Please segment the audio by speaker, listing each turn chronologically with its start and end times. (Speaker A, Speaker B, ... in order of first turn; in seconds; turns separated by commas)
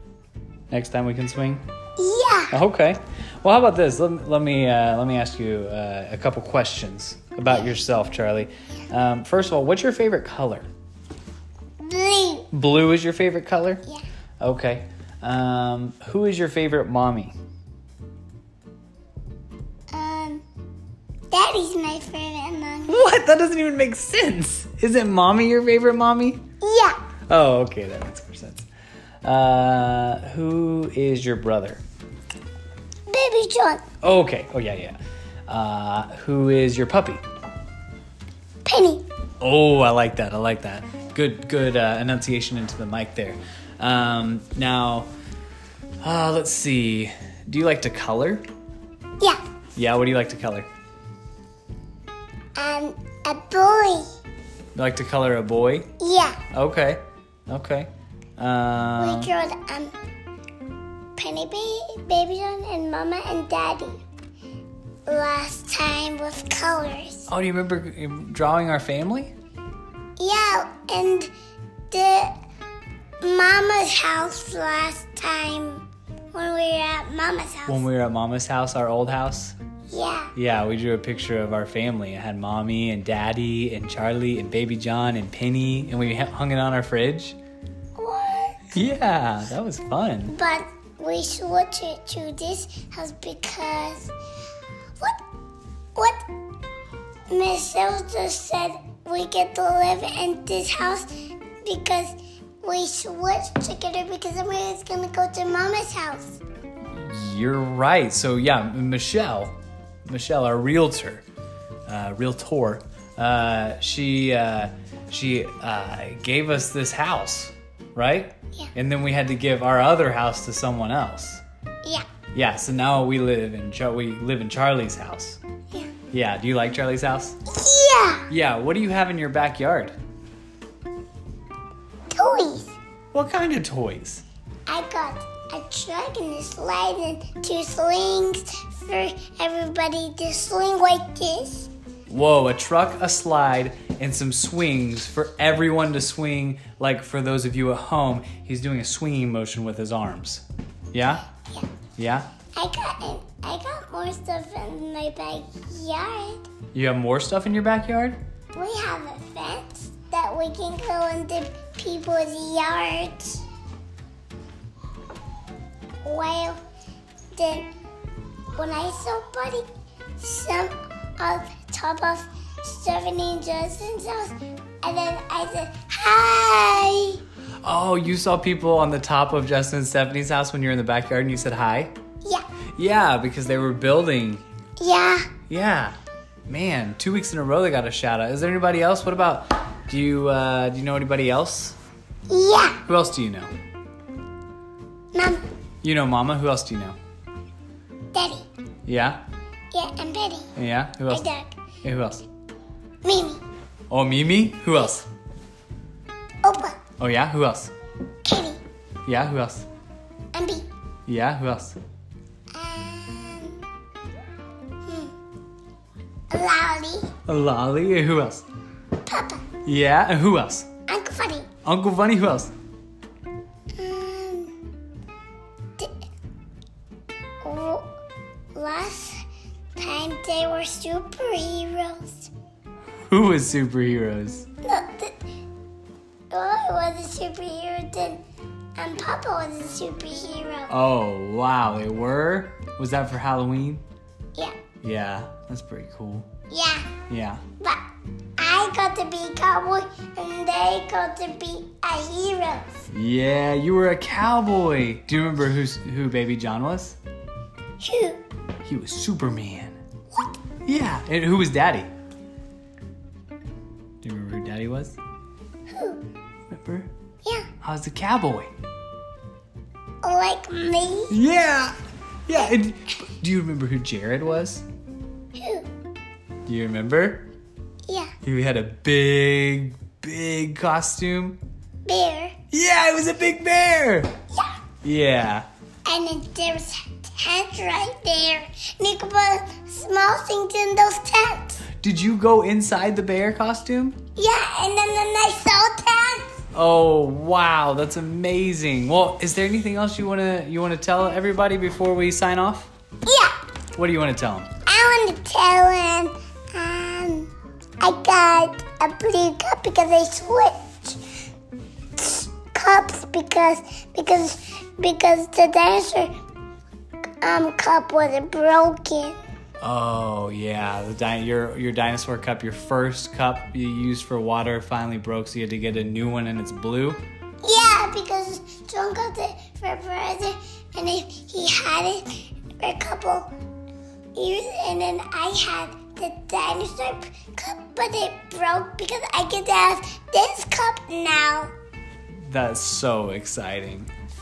Speaker A: 0.7-1.6, Speaker B: 2.0-2.5, Speaker A: 2.5-10.7, Speaker B: 11.8-12.5, Speaker A: 12.5-13.8, Speaker A: 14.4-17.4, Speaker B: 19.9-20.4, Speaker B: 21.3-23.1, Speaker A: 22.9-26.4, Speaker B: 26.6-27.0, Speaker A: 27.3-28.7, Speaker A: 29.2-31.8, Speaker B: 33.1-33.8, Speaker A: 34.0-37.2, Speaker B: 38.6-39.0, Speaker A: 39.4-45.1, Speaker A: 46.0-48.5, Speaker A: 49.8-50.7, Speaker B: 52.5-54.1, Speaker A: 54.7-55.9, Speaker B: 56.0-56.4, Speaker A: 56.5-59.3, Speaker B: 59.0-59.9, Speaker B: 61.1-64.0, Speaker B: 65.0-67.3, Speaker A: 67.3-69.3, Speaker B: 70.2-71.3, Speaker B: 71.9-72.3, Speaker B: 73.2-77.8, Speaker A: 77.7-79.5, Speaker B: 79.9-80.3, Speaker A: 80.3-87.4, Speaker B: 88.0-88.7, Speaker A: 88.7-90.3, Speaker B: 90.3-94.1, Speaker B: 96.0-96.2, Speaker B: 97.3-101.1, Speaker B: 101.6-106.4, Speaker A: 106.9-109.5, Speaker A: 110.0-111.2, Speaker A: 111.9-121.4, Speaker A: 122.3-125.4, Speaker A: 126.1-127.4, Speaker B: 127.5-128.2, Speaker A: 128.3-129.9, Speaker B: 132.1-132.8, Speaker A: 133.1-134.2, Speaker B: 134.7-141.7, Speaker A: 142.1-151.3, Speaker B: 151.4-151.7, Speaker A: 152.0-152.3, Speaker B: 152.5-156.4, Speaker A: 156.7-158.2, Speaker B: 158.5-163.4, Speaker B: 166.0-166.6, Speaker B: 167.3-167.7, Speaker B: 168.5-169.7, Speaker B: 170.2-177.2, Speaker A: 177.6-181.9, Speaker A: 182.8-184.4, Speaker B: 184.8-185.3, Speaker A: 185.5-186.0, Speaker A: 186.5-191.8, Speaker B: 192.3-192.8, Speaker A: 192.8-193.5, Speaker B: 195.1-195.4, Speaker A: 195.8-197.0, Speaker B: 198.1-198.5, Speaker A: 198.8-199.2, Speaker B: 199.7-200.5, Speaker A: 200.6-201.2, Speaker B: 201.1-201.6, Speaker A: 201.8-202.2, Speaker B: 203.0-203.4, Speaker A: 203.9-205.1, Speaker B: 206.4-206.8, Speaker A: 207.0-207.7, Speaker B: 208.2-208.6, Speaker A: 209.1-209.7, Speaker B: 210.3-210.7, Speaker A: 211.1-211.8, Speaker B: 212.5-213.6, Speaker B: 214.8-215.1, Speaker B: 216.3-217.1, Speaker A: 217.2-218.4, Speaker B: 219.0-219.5, Speaker A: 219.6-220.7, Speaker B: 220.9-221.5, Speaker A: 221.6-222.5, Speaker B: 223.8-224.5, Speaker B: 227.4-227.9, Speaker B: 228.5-229.2, Speaker B: 229.8-232.3, Speaker A: 233.1-234.5, Speaker B: 234.6-235.2, Speaker B: 236.3-238.2, Speaker B: 238.8-240.7, Speaker A: 240.7-243.8, Speaker A: 244.8-246.3, Speaker B: 246.5-246.9, Speaker A: 247.1-247.4, Speaker B: 248.4-252.8, Speaker A: 252.9-257.0, Speaker B: 257.8-258.2, Speaker A: 258.6-259.8, Speaker A: 260.6-261.9, Speaker A: 264.0-265.0, Speaker B: 265.7-266.0, Speaker A: 266.5-266.9, Speaker A: 267.6-268.5, Speaker B: 270.0-271.1, Speaker A: 271.1-274.6, Speaker B: 275.3-275.7, Speaker A: 276.4-277.3, Speaker B: 277.9-278.1, Speaker A: 278.2-281.4, Speaker B: 281.9-282.4, Speaker A: 282.5-284.1, Speaker A: 284.8-285.4, Speaker B: 285.9-291.6, Speaker A: 291.8-294.0, Speaker B: 294.1-296.3, Speaker A: 296.5-302.7, Speaker B: 303.1-303.4, Speaker A: 303.7-304.5, Speaker B: 304.6-311.0, Speaker B: 312.0-316.1, Speaker B: 317.2-319.2, Speaker A: 319.6-327.0, Speaker B: 327.4-333.3, Speaker B: 334.1-341.5, Speaker A: 342.2-343.9